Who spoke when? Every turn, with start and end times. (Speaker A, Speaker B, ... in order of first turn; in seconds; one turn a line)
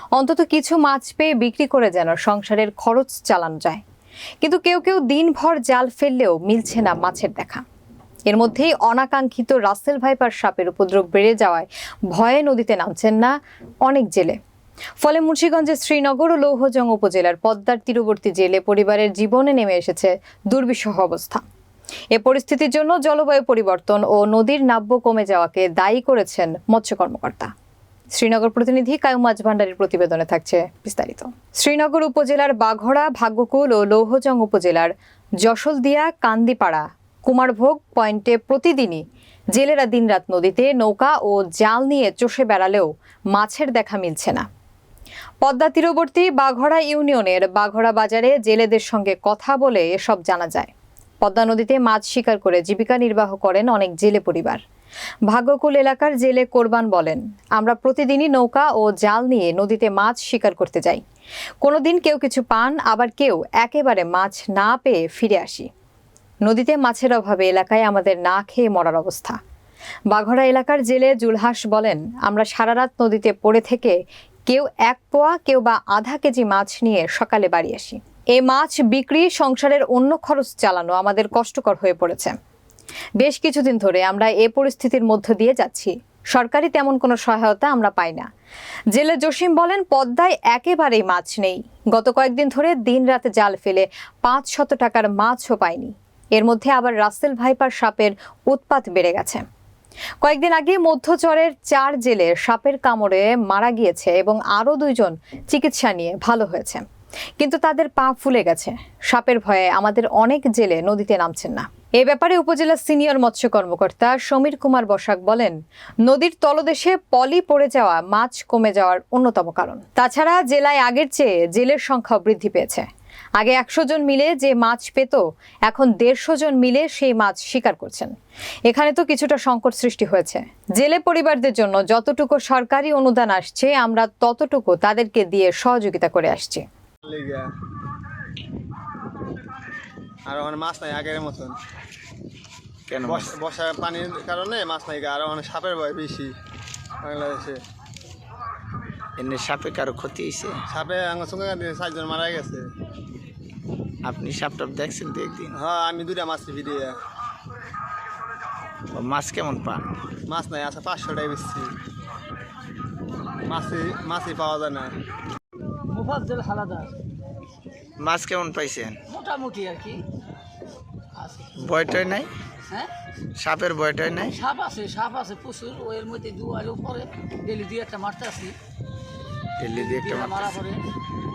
Speaker A: 0.2-3.8
Speaker A: 4.4-7.6
Speaker A: 8.3-14.4
Speaker A: 15.0-21.4
Speaker A: 22.1-27.5
Speaker A: 28.1-34.9
Speaker A: 35.4-44.5
Speaker A: 45.4-54.6
Speaker A: 55.3-61.0
Speaker A: 61.6-65.7
Speaker A: 66.5-69.4
Speaker A: 70.1-82.4
Speaker A: 83.2-88.3
Speaker A: 88.9-99.4
Speaker A: 100.2-106.8
Speaker A: 107.4-122.9
Speaker A: 123.4-128.2
Speaker A: 128.7-136.7
Speaker B: 137.0-137.5
Speaker B: 140.3-141.6
Speaker C: 142.9-143.3
Speaker B: 143.1-146.3
Speaker B: 147.0-147.6
Speaker C: 149.2-150.6
Speaker B: 150.7-152.7
Speaker C: 154.0-155.6
Speaker B: 155.5-157.0
Speaker C: 158.9-159.8
Speaker B: 160.3-161.7
Speaker B: 163.5-164.9
Speaker D: 165.9-167.0
Speaker C: 168.0-169.0
Speaker D: 169.1-170.0
Speaker D: 171.2-171.6
Speaker C: 171.6-172.3
Speaker C: 173.3-174.4
Speaker D: 174.3-178.6
Speaker C: 179.6-180.6
Speaker D: 179.7-180.8